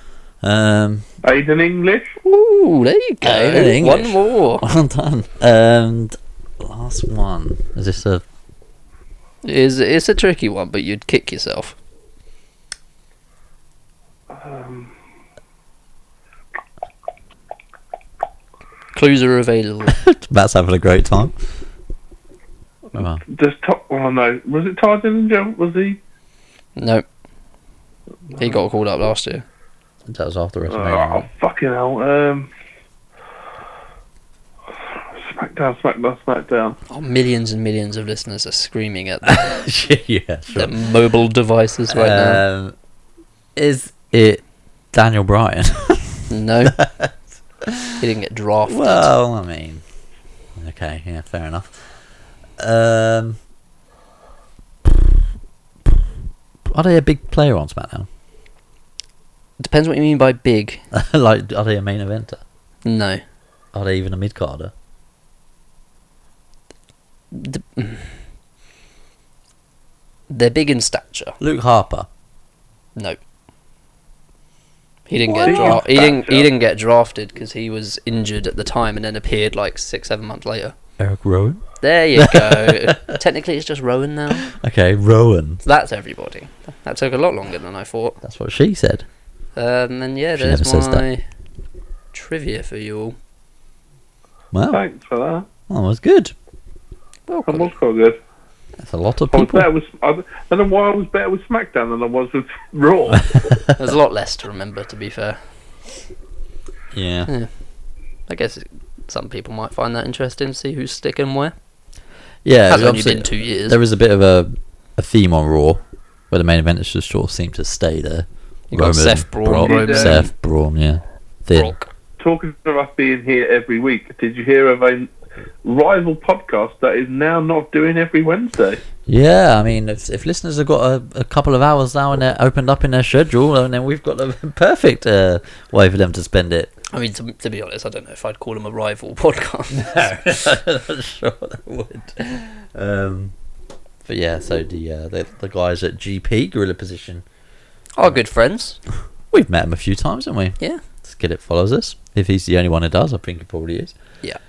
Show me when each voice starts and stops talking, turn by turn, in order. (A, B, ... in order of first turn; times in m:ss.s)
0:00.4-0:01.1 A
0:01.2-0:02.2 B
0:02.2-0:04.6 C
0:03.2-0:08.2 A
0:09.4-0:11.8 C
0:14.3-0:14.9 B
0:18.9-0:20.0 C
0:19.9-0:21.3 A
0:22.9-0:23.2 A
0:23.2-0:26.0 B
0:26.8-0:27.0 C
0:28.4-0:29.4 C
0:30.1-0:31.3 A
0:30.7-0:32.5 B
0:35.1-0:36.8 B
0:36.9-0:39.5 C
0:39.2-0:40.8 A
0:40.5-0:42.4 C
0:41.9-0:42.7 A
0:43.6-0:48.0 A
0:46.3-0:46.8 C
0:48.0-0:49.1 C
0:48.6-0:49.8 A
0:50.6-0:51.8 A
0:52.6-0:53.4 A
0:54.8-0:55.2 A
0:56.7-0:58.1 A
0:59.6-1:00.8 C
1:00.9-1:02.4 A
1:02.8-1:03.2 C
1:03.7-1:04.7 A
1:07.3-1:08.1 C
1:10.3-1:11.4 C
1:11.4-1:12.1 A
1:15.1-1:20.7 C
1:15.3-1:15.8 A
1:15.4-1:16.5 B
1:21.0-1:21.6 A
1:21.8-1:24.5 C
1:22.1-1:23.2 A
1:24.3-1:25.6 A
1:25.6-1:28.2 C
1:28.2-1:29.0 A
1:29.6-1:31.2 C
1:30.4-1:31.0 A
1:32.1-1:33.2 C
1:34.5-1:34.8 A
1:34.7-1:35.5 B
1:35.7-1:36.3 A
1:37.3-1:37.7 C
1:37.5-1:38.2 B
1:38.8-1:39.7 A
1:39.3-1:43.2 B
1:43.1-1:43.8 A
1:43.8-1:45.5 C
1:46.9-1:47.3 A
1:48.3-1:51.5 C
1:52.4-2:01.8 A
1:52.7-1:53.8 C
1:58.7-2:00.3 C
1:59.6-2:00.2 B
2:01.5-2:01.9 C
2:02.2-2:05.1 B
2:05.6-2:08.8 B
2:09.1-2:16.7 A
2:16.9-2:20.0 C
2:19.7-2:23.3 A
2:24.0-2:27.2 A
2:28.0-2:28.8 C
2:29.3-2:33.9 A